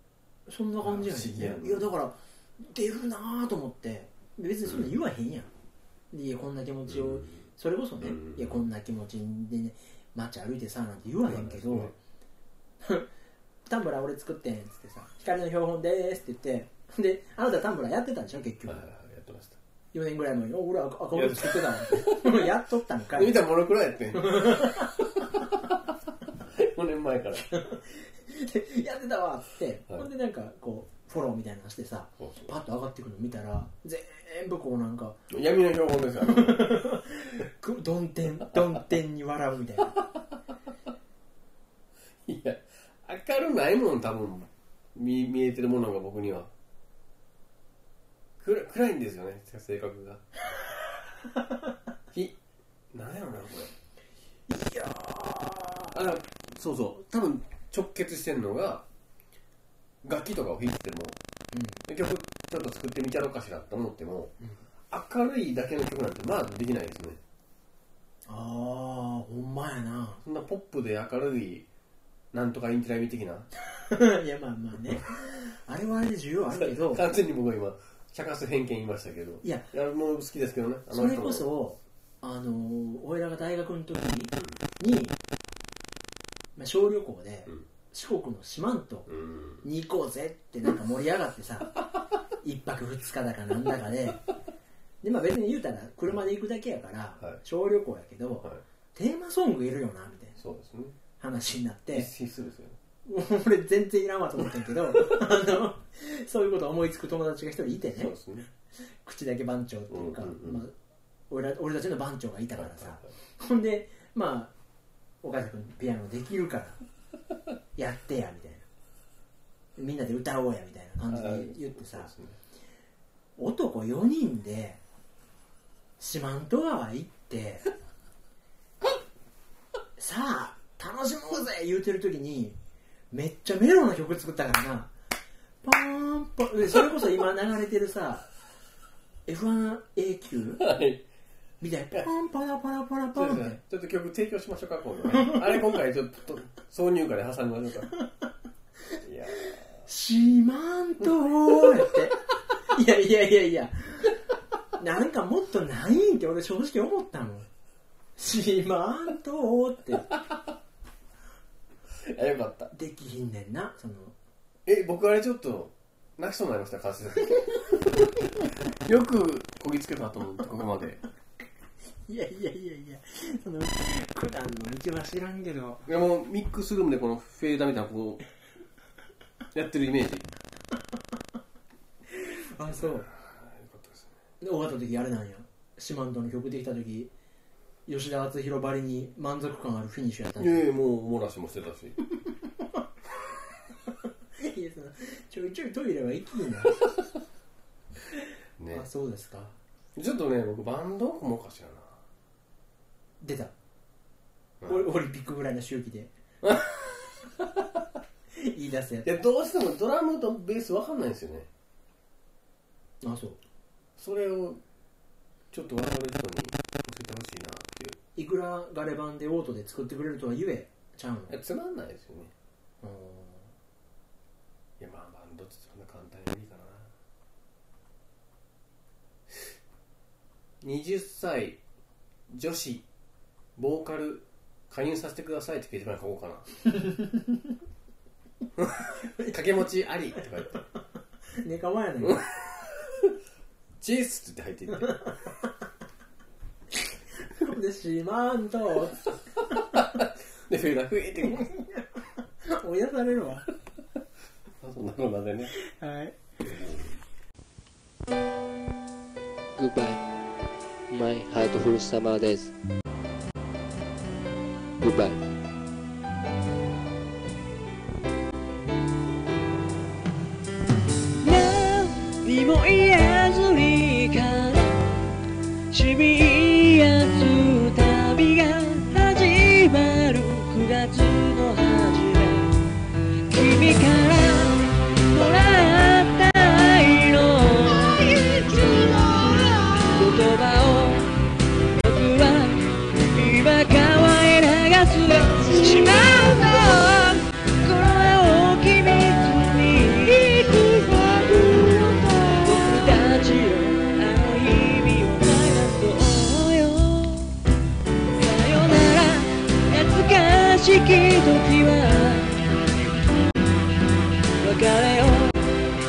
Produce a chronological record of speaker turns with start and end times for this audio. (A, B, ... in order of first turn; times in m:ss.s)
0:00.5-0:05.5 A
0:00.8-0:01.9 B
0:06.1-0:11.9 A
0:06.8-0:07.4 B
0:08.0-0:08.6 B
0:11.2-0:11.9 B
0:12.8-0:13.1 A
0:13.6-0:18.8 A
0:18.7-0:19.6 B
0:19.9-0:23.4 A
0:21.1-0:22.5 B
0:23.1-0:25.6 B
0:24.1-0:25.0 A
0:26.4-0:27.5 B
0:27.5-0:35.2 A
0:32.2-0:32.5 B
0:35.3-0:36.7 B
0:36.2-0:40.0 A
0:39.9-0:40.2 B
0:42.2-0:46.5 B
0:48.4-0:50.2 B
0:52.1-0:52.4 B
0:52.9-0:53.7 B
0:54.5-0:56.0 A
0:55.9-0:58.9 B
1:00.0-1:01.2 B
1:01.5-1:01.8 A
1:01.9-1:04.3 B
1:04.9-1:07.2 B
1:08.2-1:10.2 A
1:10.2-1:11.7 B
1:12.3-1:13.5 B
1:13.6-1:17.0 A
1:16.5-1:21.5 B
1:19.4-1:19.7 A
1:20.9-1:25.2 A
1:26.5-1:29.1 A
1:29.1-1:29.6 B
1:29.6-1:31.8 A
1:32.4-1:34.2 A
1:35.0-1:40.4 A
1:40.4-1:41.0 B
1:41.2-1:42.1 A
1:41.9-1:42.8 B
1:43.0-1:48.2 A
1:47.9-1:48.5 B
1:49.0-1:50.7 A
1:49.9-1:50.6 B
1:51.3-1:54.5 A
1:52.6-1:53.1 B
1:55.2-1:56.8 A
1:57.7-1:58.6 A
1:59.8-2:02.1 A
2:01.1-2:02.4 B
2:03.4-2:04.8 A
2:06.0-2:07.7 A
2:10.0-2:12.6 A
2:13.1-2:14.9 A
2:15.6-2:18.3 A
2:19.3-2:20.6 A
2:20.5-2:21.0 B
2:21.6-2:23.6 A
2:23.1-2:27.9 B
2:25.1-2:25.4 A
2:29.0-2:29.8 B
2:29.8-2:34.2 A
2:31.6-2:32.0 B
2:34.8-2:37.5 A
2:38.2-2:40.1 A
2:42.0-2:42.7 B
2:42.7-2:44.1 A
2:44.6-2:51.0 B
2:52.1-2:55.9 A
2:55.9-2:58.2 B
2:59.5-3:00.3 B
3:02.1-3:03.1 A
3:02.8-3:04.2 B
3:04.4-3:07.1 A
3:07.8-3:10.7 A
3:10.4-3:12.0 B
3:12.2-3:12.6 A
3:14.4-3:16.8 A
3:18.6-3:18.9 B
3:18.7-3:19.6 A
3:19.9-3:22.0 B
3:23.2-3:23.5 A
3:24.6-3:24.9 B
3:24.7-3:26.1 A
3:26.4-3:27.8 B
3:28.4-3:29.1 A
3:29.0-3:31.5 B
3:33.0-3:33.4 A
3:34.0-3:34.6 B
3:35.5-3:38.0 B
3:38.2-3:41.4 A
3:41.3-3:42.3 B
3:42.8-3:43.5 A
3:44.8-3:46.9 B
3:50.6-3:51.6 B
3:52.3-3:52.9 B
3:53.6-3:56.5 B
3:56.6-3:57.5 A
3:58.6-4:00.6 B
3:59.0-3:59.4 A
4:01.4-4:02.3 A
4:02.0-4:02.2 B
4:03.8-4:05.0 B
4:07.2-4:09.1 A
4:09.7-4:11.5 B
4:11.3-4:11.9 A
4:12.4-4:13.5 A
4:14.6-4:15.5 B
4:15.6-4:16.2 A
4:16.4-4:17.0 B
4:19.6-4:20.0 C
4:20.9-4:22.5 C
4:24.8-4:25.2 C
4:31.2-4:35.0 D
4:35.7-4:42.6 D
4:43.3-4:51.1 D
4:51.8-5:07.4 D
5:08.2-5:12.4 D
5:14.4-5:15.4 D